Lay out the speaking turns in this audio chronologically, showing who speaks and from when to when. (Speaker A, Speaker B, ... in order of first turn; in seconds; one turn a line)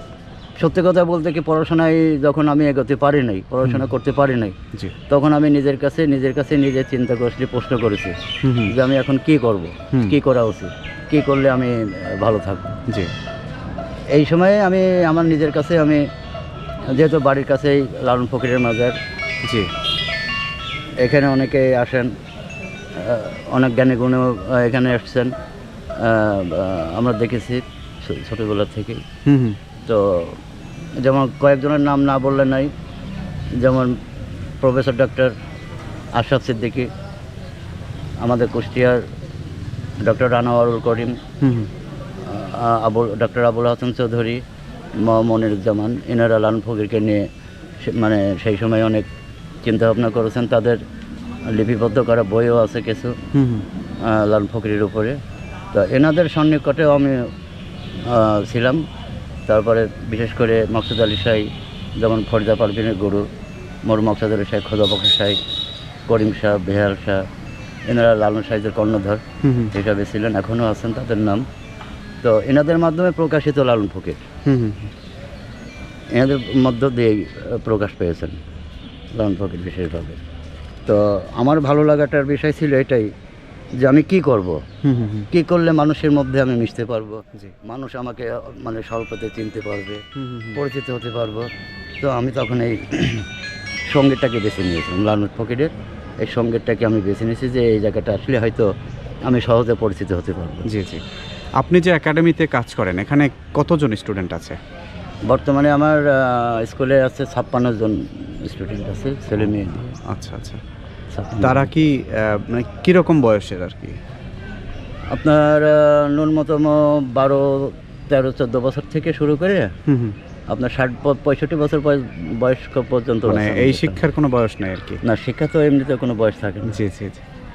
Speaker A: 0.6-4.5
Speaker A: 5.1-8.2
Speaker B: 8.4-8.7
Speaker A: 8.7-12.8
Speaker A: 14.1-16.0
Speaker A: 16.9-19.0
Speaker B: 19.4-19.7
Speaker A: 21.0-22.1
Speaker A: 23.0-25.3
Speaker A: 26.0-29.0
Speaker B: 29.2-29.6
Speaker A: 29.8-30.4
Speaker A: 31.0-32.7
Speaker A: 33.6-33.9
Speaker A: 34.6-35.3
Speaker A: 36.1-36.9
Speaker A: 38.2-39.0
Speaker A: 40.0-41.2
Speaker B: 41.4-41.7
Speaker A: 42.2-44.4
Speaker A: 45.0-47.2
Speaker A: 47.8-49.0
Speaker A: 49.6-50.8
Speaker A: 51.5-53.2
Speaker B: 53.3-53.6
Speaker A: 54.0-55.2
Speaker A: 55.7-57.3
Speaker A: 58.0-58.8
Speaker A: 59.5-61.5
Speaker A: 62.0-63.2
Speaker A: 63.8-65.4
Speaker A: 66.1-67.2
Speaker A: 67.9-71.4
Speaker B: 69.4-69.7
Speaker A: 72.2-74.2
Speaker B: 74.5-74.9
Speaker A: 76.1-78.4
Speaker A: 79.1-80.2
Speaker A: 80.8-83.1
Speaker A: 83.8-84.6
Speaker B: 84.8-85.3
Speaker A: 85.3-90.0
Speaker B: 90.2-90.6
Speaker A: 90.5-91.5
Speaker A: 92.0-93.2
Speaker A: 93.9-98.7
Speaker A: 99.2-100.7
Speaker B: 100.7-101.0
Speaker B: 101.6-104.6
Speaker A: 105.3-110.0
Speaker B: 110.0-110.6
Speaker A: 111.1-111.7
Speaker B: 111.4-114.0
Speaker A: 115.1-119.7
Speaker B: 119.9-120.2
Speaker A: 120.5-124.0
Speaker B: 123.2-125.0
Speaker A: 125.0-126.8
Speaker B: 126.7-127.2